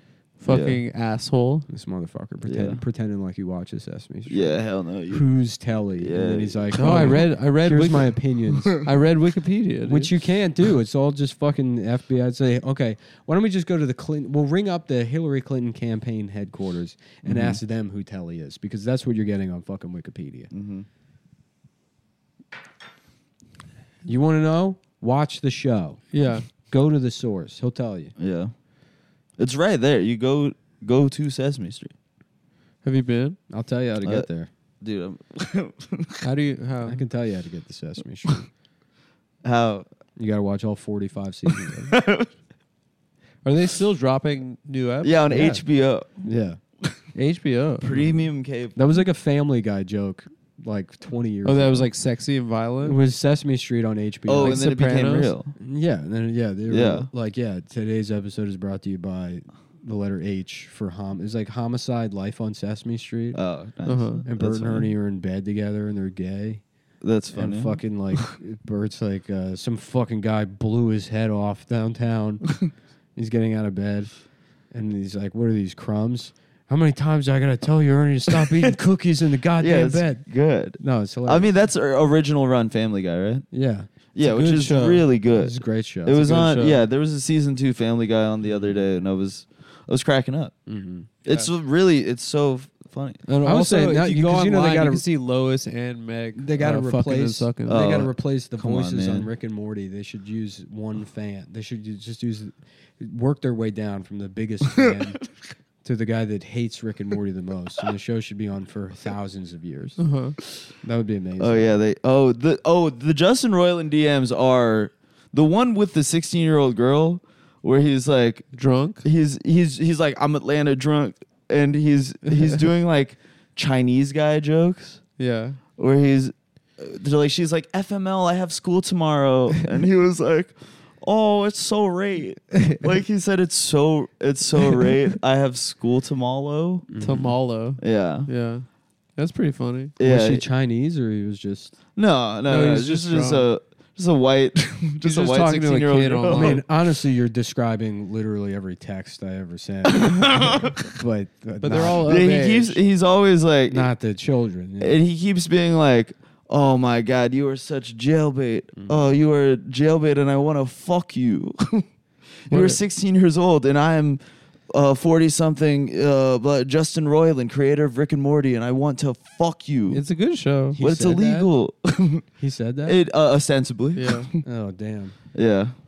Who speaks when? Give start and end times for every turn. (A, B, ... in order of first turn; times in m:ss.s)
0:00.4-0:01.7 A
0:00.5-0:00.8 B
0:01.7-0:04.5 C
0:02.4-0:02.8 B
0:04.3-0:05.3 B
0:05.1-0:08.8 C
0:06.0-0:07.3 B
0:06.7-0:08.2 A
0:08.7-0:10.1 A
0:09.8-0:20.5 C
0:17.2-0:17.6 B
0:20.5-0:20.8 B
0:24.0-0:28.1 C
0:26.1-0:26.4 A
0:28.2-0:28.5 B
0:29.4-0:31.9 B
0:32.8-0:33.4 A
0:33.5-0:34.5 C
0:34.8-0:36.2 B
0:36.2-0:37.0 A
0:36.8-0:38.5 C
0:39.4-0:39.8 B
0:40.2-0:42.0 C
0:41.5-0:42.3 B
0:43.4-0:45.2 A
0:45.0-0:46.1 B
0:45.3-0:45.6 C
0:46.2-0:46.6 C
0:47.1-0:47.9 A
0:47.8-0:48.8 B
0:48.8-0:51.9 C
0:51.4-0:53.0 A
0:52.8-0:54.7 C
0:54.3-0:55.6 B
0:54.4-0:55.3 A
0:55.6-1:03.4 C
0:56.7-0:57.1 B
1:03.3-1:04.9 B
1:03.8-1:04.2 A
1:04.2-1:06.6 C
1:07.0-1:08.3 B
1:07.3-1:12.6 C
1:13.2-1:14.1 C
1:14.7-1:20.2 C
1:18.3-1:18.7 B
1:19.6-1:23.5 B
1:20.8-1:21.5 C
1:23.5-1:23.9 C
1:24.1-1:30.5 B
1:24.2-1:25.0 A
1:25.3-1:26.2 C
1:26.1-1:26.8 A
1:30.7-1:31.1 C
1:31.2-1:33.2 B
1:33.2-1:37.8 A
1:33.4-1:35.0 C
1:36.4-1:45.2 C
1:37.7-1:39.3 B
1:45.8-1:50.0 C
1:50.0-1:50.4 A
1:50.8-1:51.7 C
1:51.4-2:05.0 B
1:58.5-1:59.0 A
2:05.2-2:05.6 A
2:05.8-2:16.9 B
2:16.9-2:17.3 C
2:17.0-2:19.9 A
2:17.8-2:18.3 B
2:20.0-2:20.4 B
2:20.0-2:21.7 C
2:22.0-2:26.6 B
2:22.5-2:23.5 A
2:25.0-2:26.6 A
2:26.3-2:32.1 C
2:29.9-2:30.9 B
2:31.6-2:32.8 A
2:32.0-2:33.9 B
2:33.7-2:35.0 C
2:34.8-2:41.8 B
2:42.5-2:50.0 B
2:42.5-2:42.8 A
2:49.9-2:50.8 A
2:50.8-2:51.5 C
2:50.8-2:52.2 B
2:52.4-2:53.0 C
2:52.8-2:54.4 B
2:53.9-2:54.3 A
2:54.4-2:55.2 C
2:55.3-2:55.7 B